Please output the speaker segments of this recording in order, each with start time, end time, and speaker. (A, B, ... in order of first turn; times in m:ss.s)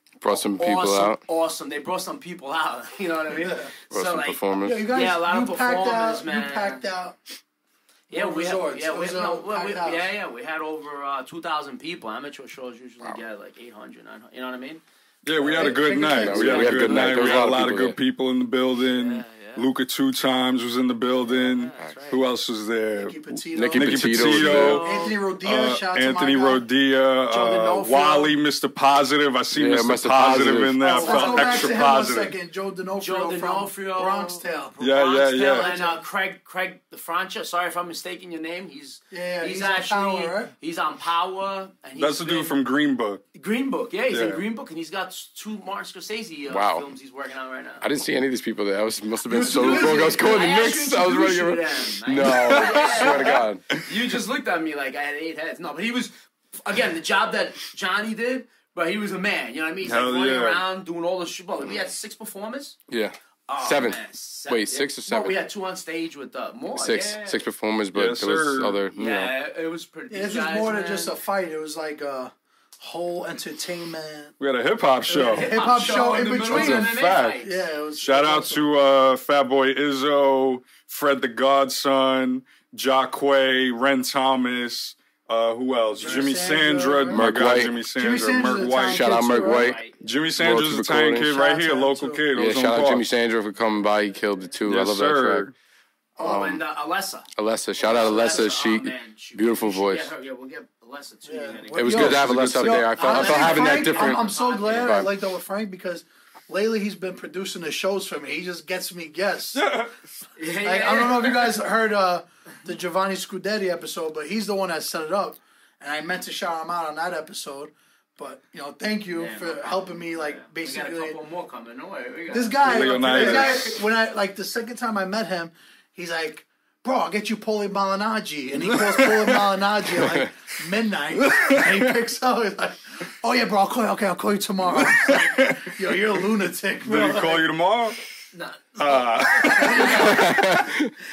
0:00.2-0:01.2 A
0:00.3-0:06.8 B
0:03.4-0:03.7 C
0:03.9-0:04.8 A
0:04.6-0:07.2 C
0:08.1-0:10.1 C
0:08.1-0:14.8 B
0:15.2-0:23.2 D
0:15.3-0:17.2 B
0:15.6-0:16.6 C
0:16.2-0:18.0 A
0:18.9-0:19.7 B
0:21.1-0:22.2 B
0:23.0-0:26.6 C
0:23.5-0:24.9 A
0:23.7-0:24.9 D
0:24.4-0:25.2 B
0:25.4-0:32.4 D
0:27.3-0:28.3 C
0:29.5-0:30.8 A
0:30.8-0:34.8 C
0:30.8-0:31.8 B
0:33.0-0:42.5 B
0:34.8-0:35.7 D
0:35.4-0:36.0 C
0:39.1-0:40.5 C
0:42.0-0:43.2 D
0:43.4-0:47.9 B
0:44.1-0:44.4 D
0:46.5-0:46.9 A
0:47.8-0:53.7 A
0:49.3-1:02.8 B
0:49.6-0:50.1 C
0:52.7-0:53.2 D
0:59.8-1:00.6 D
1:02.9-1:05.4 A
1:03.5-1:07.4 B
1:06.8-1:09.3 A
1:07.9-1:08.8 D
1:08.9-1:11.2 B
1:10.1-1:14.3 C
1:14.4-1:17.4 D
1:15.1-1:18.7 C
1:15.1-1:17.6 B
1:18.0-1:29.1 D
1:26.0-1:27.2 C
1:27.1-1:27.8 A
1:27.8-1:29.8 C
1:28.8-1:29.8 A
1:29.3-1:30.1 B
1:30.0-1:33.1 D
1:30.4-1:31.3 A
1:31.2-1:32.3 C
1:32.3-1:35.5 A
1:34.7-1:35.5 D
1:36.2-1:42.2 B
1:36.2-1:36.6 A
1:37.4-1:40.1 A
1:41.2-1:49.7 C
1:41.8-1:45.1 A
1:41.9-1:43.0 D
1:43.0-1:45.1 B
1:49.5-1:49.9 D
1:50.4-1:51.6 B
1:50.6-2:01.2 C
1:59.1-2:03.8 B
2:02.3-2:17.5 C
2:02.6-2:03.8 D
2:08.6-2:09.4 D
2:11.2-2:11.9 D
2:14.7-2:15.7 D
2:16.8-2:18.0 D
2:18.3-2:20.4 B
2:18.8-2:20.2 D
2:19.7-2:20.4 C
2:20.1-2:20.9 A